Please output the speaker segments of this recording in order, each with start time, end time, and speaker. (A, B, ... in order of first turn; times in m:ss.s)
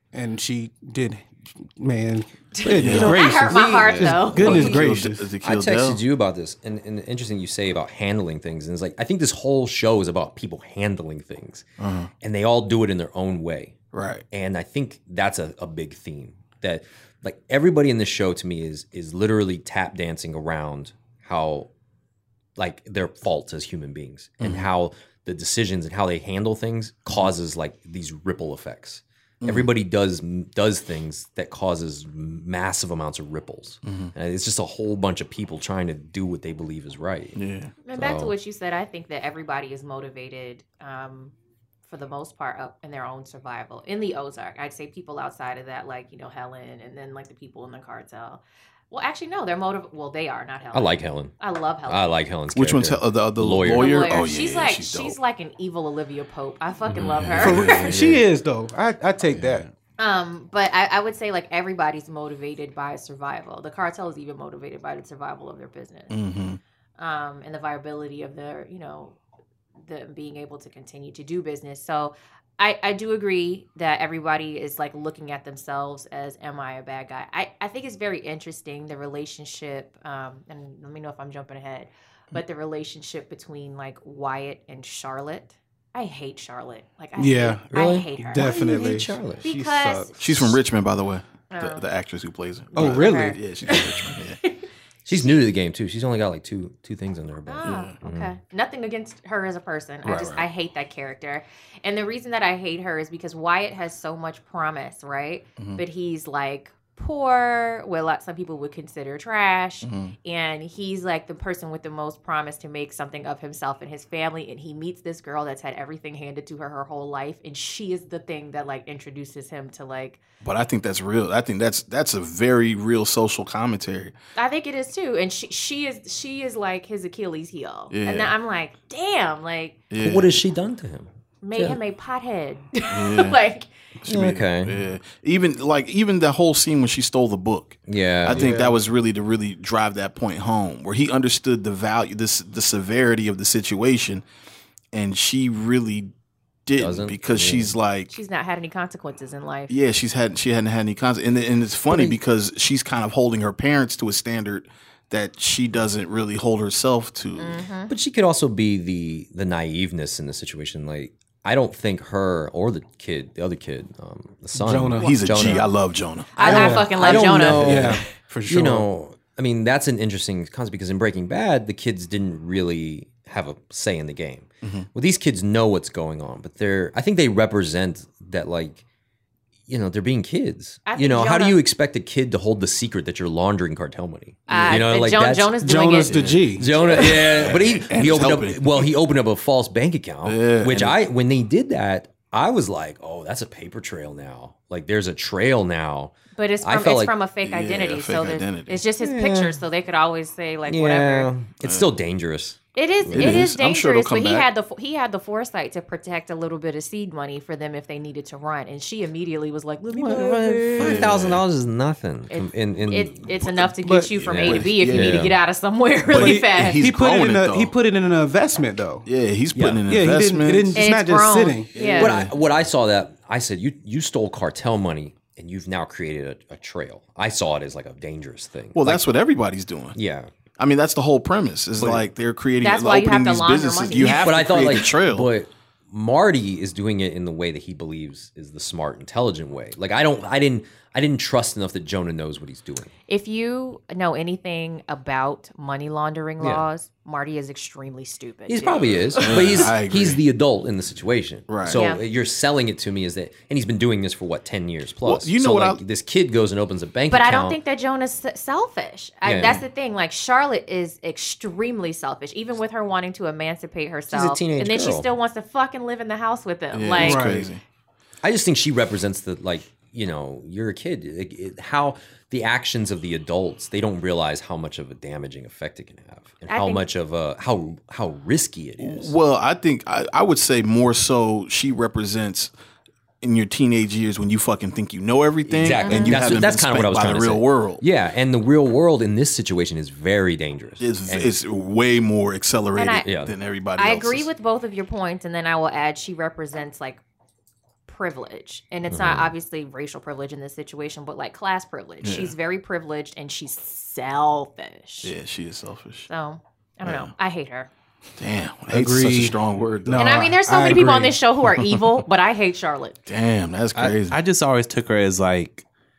0:00.1-0:05.3 A
0:02.5-0:04.8 B
0:02.8-0:03.2 C
0:02.8-0:04.8 D
0:04.3-0:06.0 C
0:05.4-0:11.6 D
0:11.8-0:12.1 C
0:12.2-0:13.8 D
0:13.9-0:14.2 C
0:14.3-0:21.7 D
0:22.6-0:37.4 D
0:24.4-0:24.7 C
0:29.4-0:29.7 C
0:33.8-0:34.1 C
0:37.4-0:37.7 C
0:37.8-0:41.3 B
0:37.9-0:38.3 D
0:41.9-0:52.1 B
0:50.7-0:51.3 D
0:51.8-0:54.1 D
0:52.5-0:55.2 C
0:53.7-0:57.9 B
0:56.9-0:58.2 C
0:57.4-0:59.6 A
0:59.3-0:59.7 E
1:00.0-1:06.2 B
1:06.1-1:06.6 C
1:07.0-1:09.2 B
1:09.8-1:30.2 B
1:27.2-1:30.5 A
1:27.7-1:29.4 D
1:30.2-1:34.4 C
1:31.5-1:31.8 B
1:32.7-1:34.6 B
1:32.7-1:33.4 A
1:35.0-1:38.3 D
1:37.4-2:00.2 B
1:37.6-1:38.0 C
1:40.0-1:40.4 C
1:49.8-1:50.1 C
2:00.4-2:04.1 C
2:04.4-2:09.8 B
2:07.9-2:08.3 C
2:09.9-2:10.4 C
2:10.0-2:11.8 D
2:11.4-2:13.7 B
2:12.9-2:13.4 C
2:14.0-2:24.2 C
2:14.1-2:14.8 D
2:17.9-2:18.5 D
2:18.3-2:18.8 A
2:24.9-2:26.1 C
2:26.6-2:28.1 C
2:26.8-2:27.7 D
2:28.1-2:29.7 B
2:29.7-2:37.6 C
2:31.9-2:32.2 D
2:37.4-2:37.9 B
2:37.9-2:45.7 D
2:44.5-2:45.1 A
2:45.0-2:46.7 C
2:46.4-2:48.0 B
2:46.4-2:58.8 D
2:46.4-2:48.9 A
2:47.6-2:47.9 C
2:59.7-3:05.6 D
3:00.8-3:01.6 B
3:04.5-3:07.3 B
3:04.5-3:04.8 C
3:05.6-3:06.7 A
3:06.1-3:08.9 C
3:06.4-3:17.2 D
3:10.2-3:11.0 C
3:16.4-3:21.3 B
3:17.4-3:18.8 C
3:19.0-3:19.6 D
3:20.7-3:23.5 D
3:21.6-3:21.9 C
3:22.8-3:30.7 B
3:23.1-3:24.5 C
3:29.9-3:33.2 D
3:30.8-3:31.4 C
3:32.3-3:36.8 B
3:33.4-3:35.3 C
3:33.8-3:34.2 A
3:34.3-3:35.4 D
3:36.1-3:37.7 C
3:36.1-3:39.1 A
3:39.0-3:40.8 C
3:39.5-3:39.8 D
3:39.9-3:41.7 A
3:40.7-3:42.2 B
3:41.7-3:42.3 C
3:41.9-3:49.0 D
3:48.7-3:50.0 C
3:49.9-3:50.3 D
3:50.6-3:55.3 C
3:51.8-3:52.0 D
3:52.6-3:54.4 B
3:54.0-4:02.9 D
4:03.1-4:09.7 B
4:06.4-4:06.6 D
4:08.5-4:17.6 D
4:09.2-4:10.2 C
4:11.5-4:11.8 C
4:11.7-4:12.0 B
4:15.0-4:15.8 C
4:17.1-4:27.2 B
4:19.2-4:19.6 D
4:24.1-4:25.1 D
4:26.7-4:27.6 C
4:27.0-4:27.5 A
4:28.2-4:39.1 D
4:36.5-4:36.8 B
4:38.8-4:42.5 C
4:43.2-4:47.8 C
4:45.5-4:51.3 D
4:45.8-4:46.3 B
4:50.8-4:54.3 C
4:52.8-4:53.0 B
4:53.0-4:53.3 D
4:53.8-4:57.0 B
4:57.9-5:05.1 B
4:58.9-4:59.3 D
5:02.0-5:02.3 C
5:05.0-5:06.1 C
5:06.1-5:07.7 B
5:06.8-5:07.1 C
5:08.2-5:10.2 C
5:08.7-5:11.2 A
5:10.0-5:13.0 B
5:13.0-5:14.2 C
5:13.7-5:15.6 E